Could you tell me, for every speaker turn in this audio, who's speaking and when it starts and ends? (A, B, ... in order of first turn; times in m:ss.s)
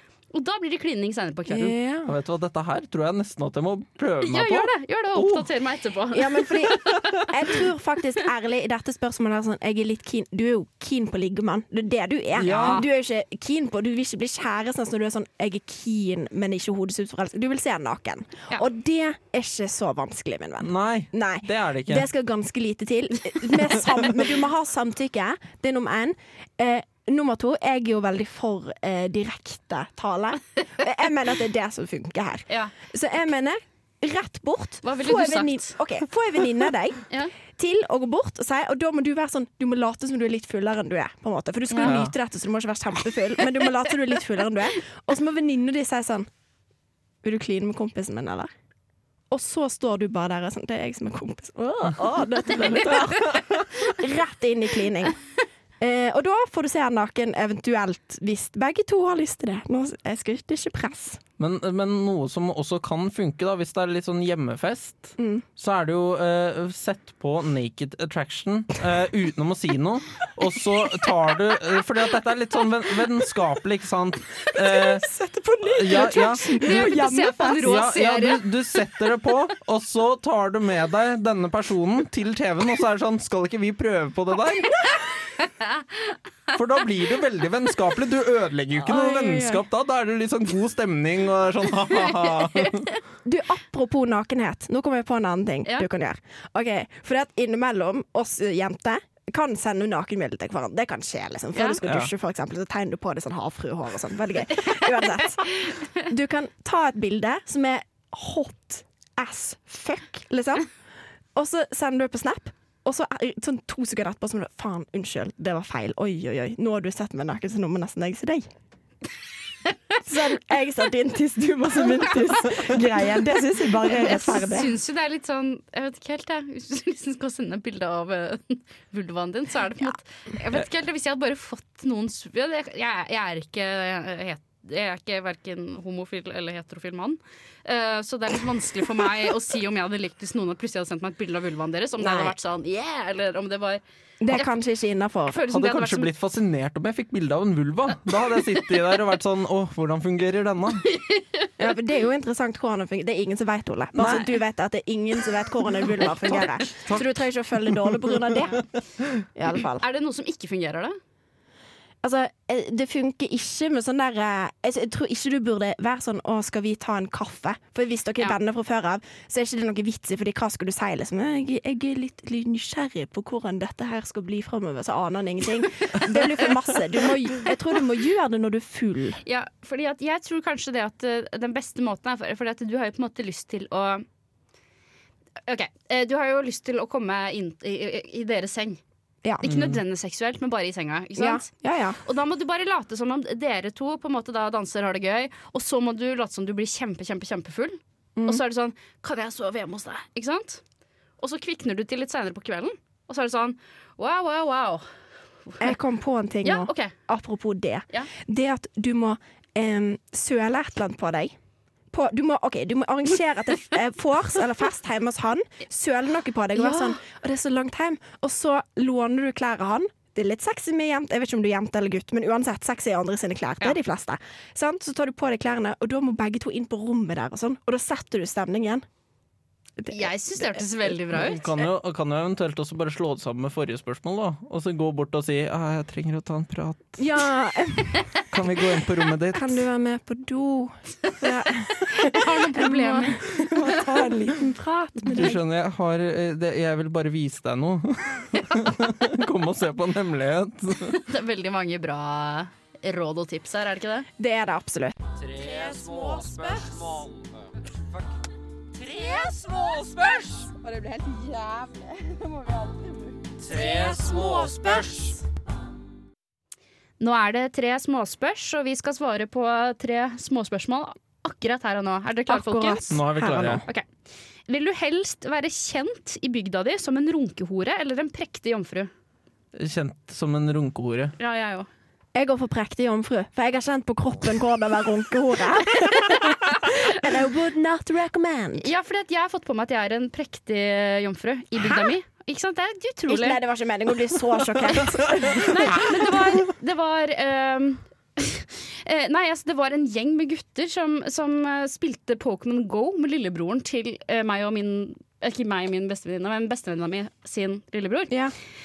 0:00.3-0:01.8 A
0:01.5-0:02.1 B
0:02.0-0:05.5 C
0:04.2-0:07.2 A
0:06.1-0:46.3 B
0:12.4-0:12.8 C
0:12.4-0:12.8 A
0:20.6-0:22.1 C
0:34.8-0:35.8 A
0:41.7-0:42.0 A
0:41.8-0:42.1 C
0:47.2-0:48.5 B
0:49.3-0:55.2 B
0:53.0-0:53.5 C
0:55.8-1:01.2 B
1:01.4-1:15.1 C
1:05.2-1:05.4 B
1:14.6-1:17.7 B
1:15.6-1:17.0 C
1:16.6-1:18.4 A
1:17.6-1:24.8 C
1:25.4-1:26.1 A
1:26.5-1:32.9 C
1:28.8-1:29.6 B
1:33.2-1:50.7 B
1:41.5-1:41.8 A
1:41.8-1:42.1 C
1:51.3-1:58.5 B
2:00.0-2:04.7 B
2:03.8-2:23.8 A
2:22.0-2:22.3 B
2:24.2-2:25.4 B
2:25.3-2:26.1 A
2:25.5-2:30.9 C
2:30.9-2:31.5 A
2:31.6-2:38.6 B
2:34.0-2:34.3 C
2:36.3-2:37.1 C
2:39.3-2:39.8 B
2:39.8-2:41.0 A
2:42.0-2:59.2 B
2:59.2-3:04.0 A
3:05.4-3:08.8 A
3:09.4-3:11.5 A
3:09.4-3:09.8 C
3:11.2-3:12.0 B
3:12.0-3:20.6 A
3:18.2-3:18.4 B
3:21.2-3:24.8 A
3:25.5-3:25.7 A
3:25.6-3:31.3 B
3:26.4-3:26.9 A
3:31.9-3:48.8 B
3:36.6-3:37.0 A
3:49.8-3:51.0 B
3:49.9-3:51.5 A
3:51.1-3:57.0 C
3:57.0-3:58.0 B
3:58.3-3:59.7 C
3:59.3-4:05.4 B
4:01.9-4:03.2 A
4:05.1-4:11.0 C
4:10.9-4:14.1 A
4:14.2-4:17.0 B
4:18.8-4:25.2 B
4:27.0-4:33.0 A
4:32.3-4:33.6 B
4:32.9-4:33.6 C
4:34.5-4:38.9 A
4:39.5-4:41.1 C
4:41.2-4:41.7 A
4:42.1-4:48.7 B
4:48.6-4:53.4 A
4:51.6-4:51.9 B
4:53.1-4:56.0 B
4:55.3-5:08.2 A